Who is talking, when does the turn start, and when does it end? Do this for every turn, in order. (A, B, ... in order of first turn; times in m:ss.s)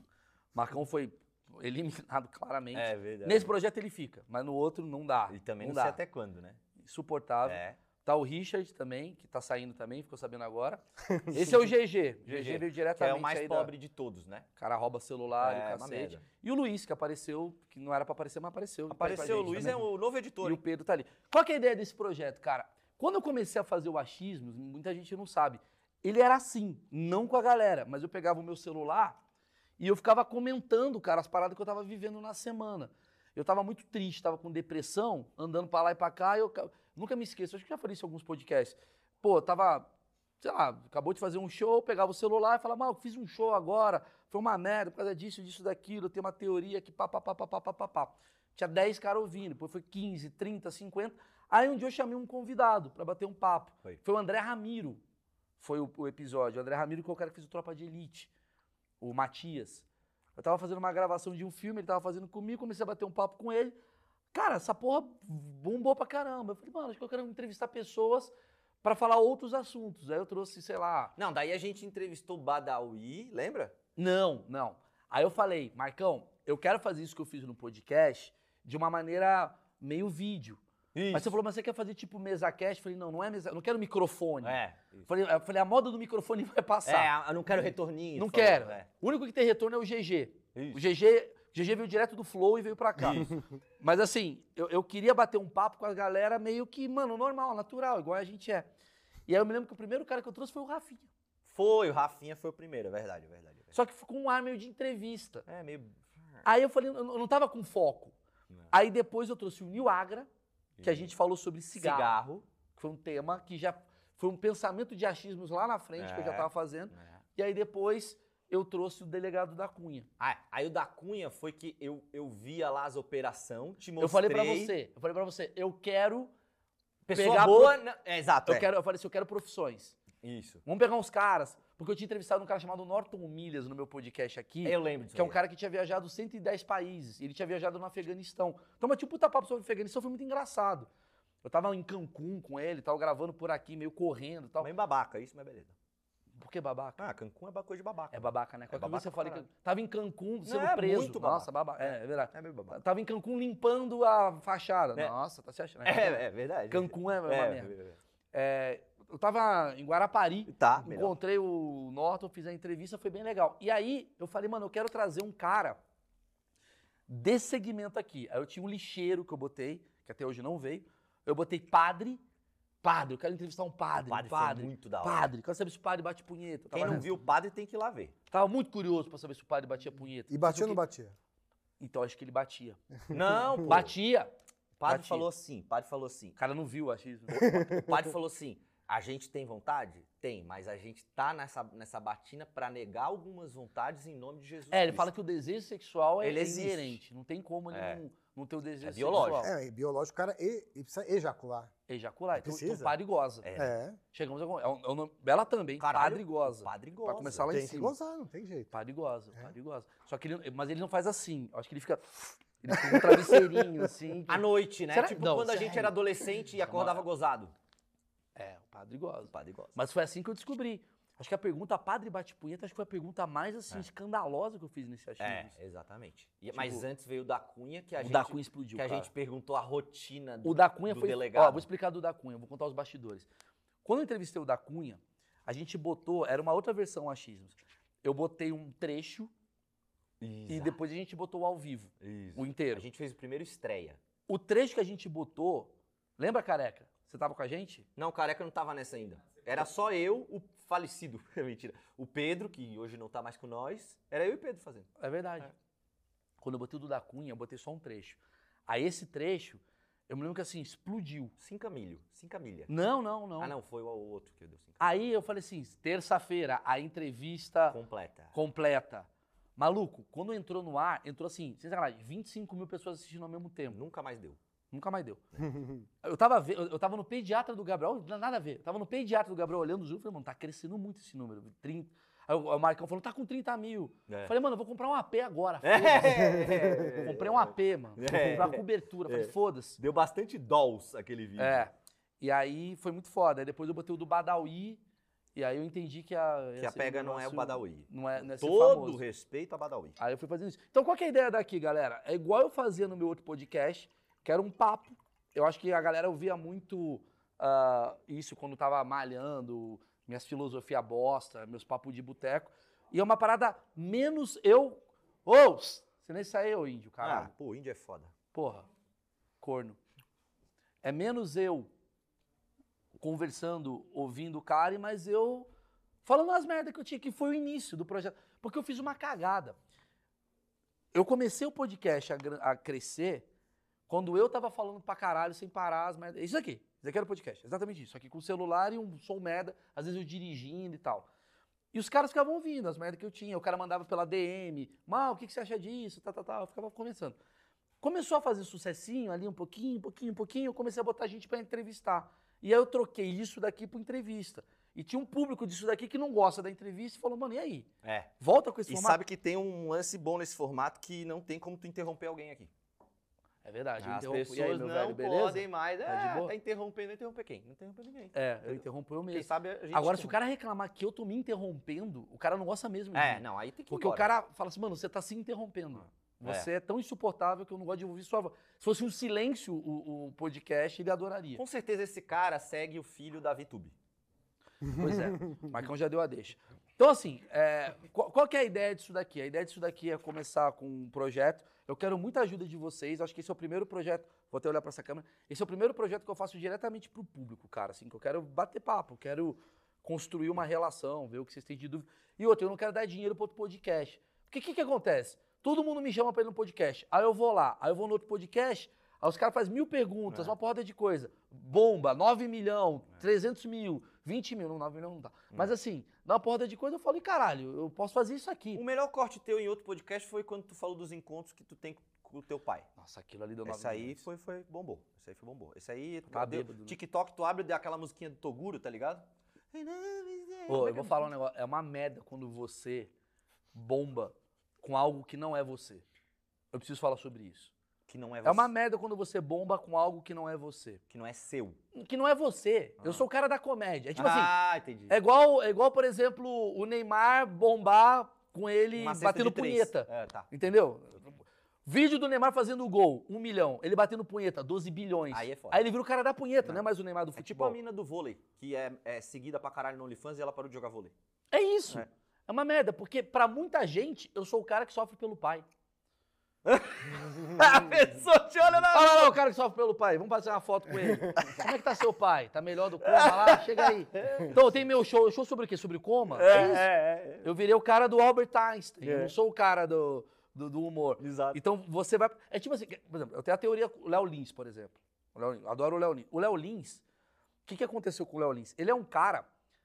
0:00.5-0:06.0 A
0:02.7-0:03.5 B
0:05.3-0:06.6 B
0:06.8-0:13.7 A
0:07.4-0:07.8 B
0:12.3-0:14.5 B
0:14.6-0:19.8 A
0:15.4-0:16.2 B
0:18.9-0:20.6 B
0:20.4-0:29.2 A
0:29.8-0:39.9 A
0:40.4-0:55.0 A
0:55.6-0:58.3 A
0:59.0-0:59.8 A
1:00.4-1:03.8 A
1:04.3-1:11.1 A
1:11.2-1:13.7 B
1:14.0-1:20.6 A
1:20.9-1:21.3 B
1:21.1-1:27.1 A
1:24.4-1:25.1 B
1:26.8-1:28.9 B
1:28.2-1:38.7 A
1:30.5-1:30.9 B
1:33.0-1:33.3 B
1:39.3-1:41.1 A
1:41.4-1:43.7 B
1:43.7-1:45.4 A
1:45.4-1:46.4 B
1:46.4-1:48.1 A
1:48.7-1:50.3 A
1:50.8-1:51.1 B
1:50.8-1:52.2 A
1:51.7-1:52.4 B
1:52.8-2:00.1 A
1:56.0-1:57.2 B
2:00.2-2:04.7 B
2:04.0-2:06.3 A
2:07.1-2:07.8 A
2:07.1-2:08.7 B
2:08.4-2:10.0 A
2:10.2-2:10.6 B
2:10.6-2:20.9 A
2:14.6-2:15.4 B
2:21.4-2:24.7 A
2:24.6-2:25.7 B
2:26.4-2:27.0 A
2:27.0-2:29.4 B
2:28.1-2:37.7 A
2:30.4-2:32.8 B
2:35.8-2:38.0 B
2:38.3-2:45.8 A
2:40.4-2:41.2 B
2:47.1-2:52.2 A
2:52.8-2:57.2 A
2:54.1-2:55.3 B
2:56.7-2:58.1 B
2:58.3-3:00.8 A
3:00.3-3:01.1 C
3:01.8-3:02.8 A
3:03.1-3:03.9 B
3:03.6-3:04.3 A
3:04.8-3:06.4 B
3:04.8-3:05.3 A
3:06.4-3:07.8 A
3:07.4-3:15.1 B
3:07.5-3:07.8 C
3:14.7-3:19.5 A
3:16.2-3:17.0 B
3:17.7-3:18.0 B
3:18.8-3:19.5 B
3:19.2-3:21.7 C
3:21.9-3:23.5 A
3:22.3-3:22.9 C
3:23.4-3:23.7 B
3:23.6-3:24.0 C
3:24.1-3:27.9 A
3:25.8-3:27.6 B
3:27.5-3:28.7 C
3:28.7-3:36.0 A
3:32.7-3:33.6 C
3:34.3-3:37.5 B
3:36.6-3:37.0 A
3:38.4-3:45.6 A
3:39.3-3:39.8 B
3:45.2-3:51.7 B
3:46.5-3:46.8 A
3:48.0-3:49.1 A
3:50.4-3:53.3 A
3:53.8-3:59.3 A
4:00.2-4:00.8 B
4:00.5-4:02.8 A
4:02.0-4:04.0 B
4:04.3-4:07.8 A
4:08.0-4:14.9 B
4:15.0-4:15.5 A
4:16.4-4:21.3 A
4:21.4-4:22.7 B
4:22.7-4:23.6 A
4:23.4-4:25.0 B
4:24.8-4:27.8 A
4:27.7-4:28.4 B
4:28.3-4:33.8 A
4:33.7-4:34.4 B
4:34.7-4:35.2 A
4:36.0-4:49.8 A
4:44.1-4:44.3 B
4:45.6-4:51.7 B
4:51.4-4:54.8 A
4:55.3-4:59.0 A
4:56.6-5:00.0 B
5:00.0-5:17.3 A
5:17.0-5:18.1 B
5:18.3-5:18.6 A
5:19.4-5:19.8 A
5:20.8-5:21.7 A
5:23.0-5:25.5 A
5:26.0-5:29.6 A
5:30.9-5:33.3 A
5:33.9-5:41.1 A
5:41.7-5:47.2 A
5:47.8-5:57.7 A
5:57.8-5:58.1 B
5:58.2-5:59.0 A
5:58.7-6:02.5 B
6:03.4-6:06.3 A
6:03.8-6:10.2 B
6:08.1-6:21.4 A
6:12.9-6:14.1 B
6:16.2-6:16.5 B
6:21.3-6:23.7 B
6:24.7-6:58.6 A
6:58.5-7:02.7 B
7:02.8-7:04.0 A
7:03.4-7:11.1 B
7:06.1-7:06.8 A
7:10.5-7:12.9 A
7:13.5-7:15.8 A
7:16.5-7:17.5 A
7:17.9-7:18.5 B
7:18.2-7:20.8 A
7:20.9-7:21.6 B
7:21.7-7:24.3 A
7:22.8-7:23.0 B
7:23.9-7:24.9 B
7:24.9-7:37.6 A
7:28.8-7:30.3 B
7:35.1-7:35.6 B
7:36.4-7:40.9 B
7:41.3-7:45.5 A
7:46.4-7:49.2 B
7:48.7-7:56.7 A
7:51.2-7:51.5 B
7:52.8-7:54.3 B
7:56.1-7:57.3 B
7:57.2-8:06.8 A
7:58.8-7:59.1 B
8:01.0-8:01.4 B
8:07.4-8:09.3 A